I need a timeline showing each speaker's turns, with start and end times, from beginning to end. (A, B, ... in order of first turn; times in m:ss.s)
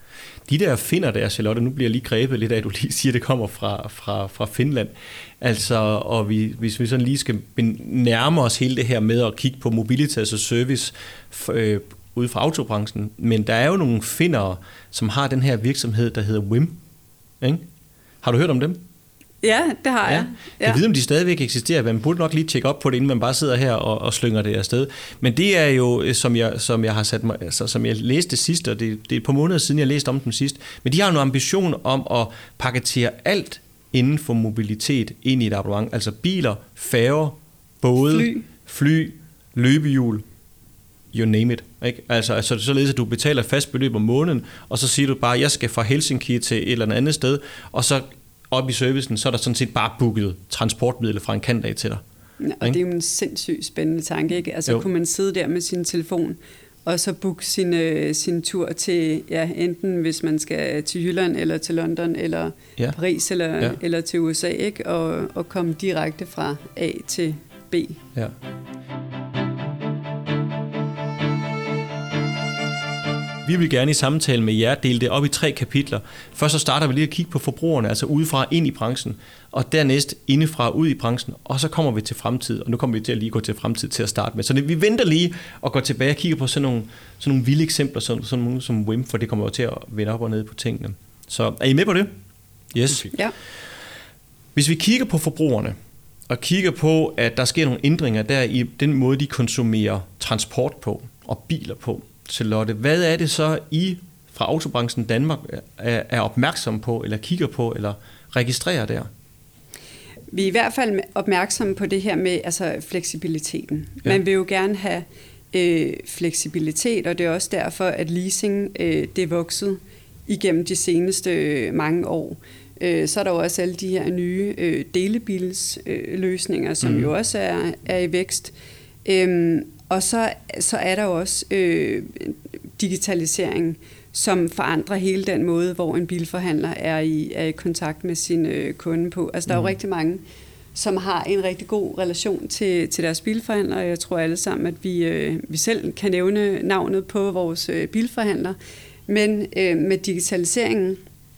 0:00.5-0:16.8 A
0:17.4-0:17.7 A
0:18.2-0:18.8 A
0:19.4-0:20.8 B
0:20.0-0:40.2 A
0:38.1-0:38.4 B
0:41.1-0:52.0 A
0:52.4-1:08.0 B
1:13.4-1:32.1 A
1:32.7-1:33.1 A
1:34.5-1:35.8 A
1:36.3-1:49.1 A
1:50.3-2:08.5 B
2:06.8-2:07.1 A
2:09.0-2:20.2 B
2:19.5-2:19.7 A
2:20.7-2:28.6 B
2:29.1-2:31.0 B